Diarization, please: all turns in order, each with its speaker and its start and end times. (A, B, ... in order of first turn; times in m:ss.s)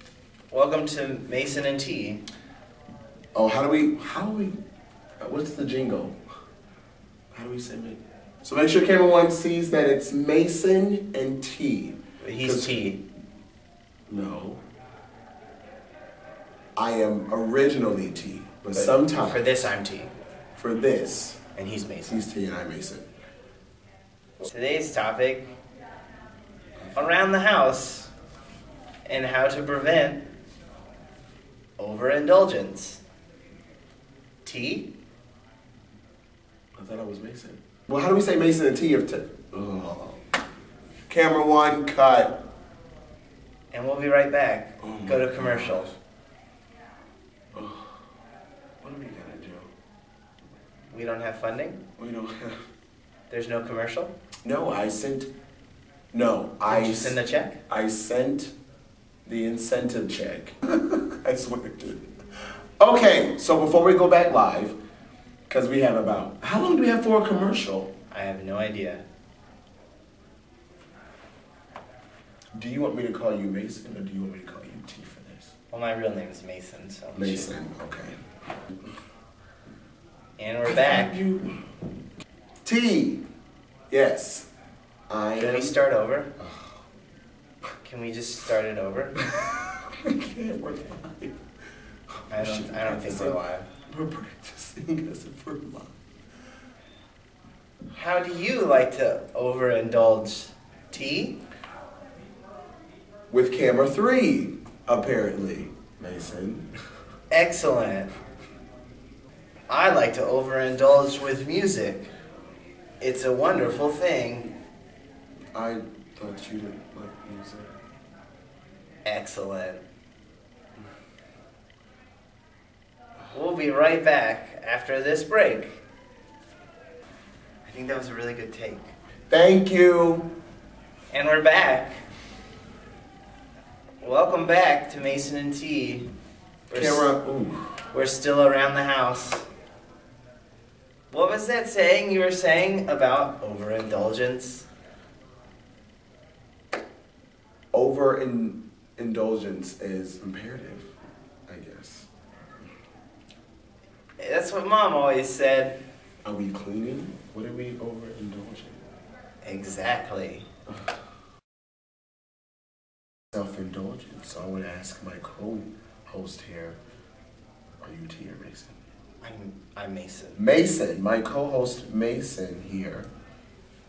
0:00.5-0:02.2 A
0:03.3-0:04.6 B
0:05.2-0:06.2 B
0:07.3-0:12.8 B
0:12.2-0:13.0 A
0:14.1-0:14.6 B
0:16.8-0:19.5 B
0:18.8-0:20.1 A
0:20.6-0:21.4 B
0:21.6-0:22.2 A
0:22.1-0:23.1 B
0:24.4-0:25.5 A
0:27.0-0:28.1 A
0:29.1-0:30.2 A
0:31.8-0:33.0 A
0:34.4-0:34.9 A
0:36.8-0:40.2 B
0:41.1-0:42.4 B
0:43.7-0:45.9 A
0:44.8-0:46.0 B
0:47.5-0:48.0 B
0:48.8-0:49.7 B
0:50.9-0:51.8 A
0:52.0-0:52.6 B
0:53.3-0:54.1 A
0:54.4-0:55.3 B
0:56.1-0:58.5 B
0:56.7-0:57.6 A
0:59.3-1:02.0 B
1:02.8-1:04.8 B
1:05.5-1:07.9 B
1:08.1-1:09.0 A
1:12.5-1:15.5 B
1:15.7-1:17.6 A
1:17.1-1:18.2 B
1:20.4-1:21.2 A
1:20.6-1:21.6 B
1:22.6-1:23.2 B
1:23.9-1:24.5 B
1:25.1-1:25.8 B
1:25.4-1:26.3 A
1:27.8-1:29.2 A
1:29.2-1:31.4 B
1:32.2-1:35.9 B
1:32.3-1:33.7 A
1:37.9-1:41.4 A
1:43.3-1:46.7 B
1:47.3-1:48.1 A
1:49.7-1:52.1 A
1:53.0-1:54.5 A
1:55.5-1:57.7 B
1:59.0-1:59.8 A
2:03.3-2:05.8 A
2:07.6-2:08.9 A
2:09.3-2:10.3 B
2:11.1-2:12.0 A
2:14.0-2:16.1 A
2:16.7-2:17.1 A
2:16.7-2:17.6 B
2:17.9-2:19.4 A
2:21.1-2:24.7 A
2:27.7-2:30.9 B
2:31.5-2:32.1 B
2:34.2-2:35.8 A
2:36.2-2:38.8 B
2:39.4-2:40.5 A
2:43.3-2:46.8 B
2:47.8-2:48.8 B
2:49.2-2:50.4 A
2:50.4-2:53.1 B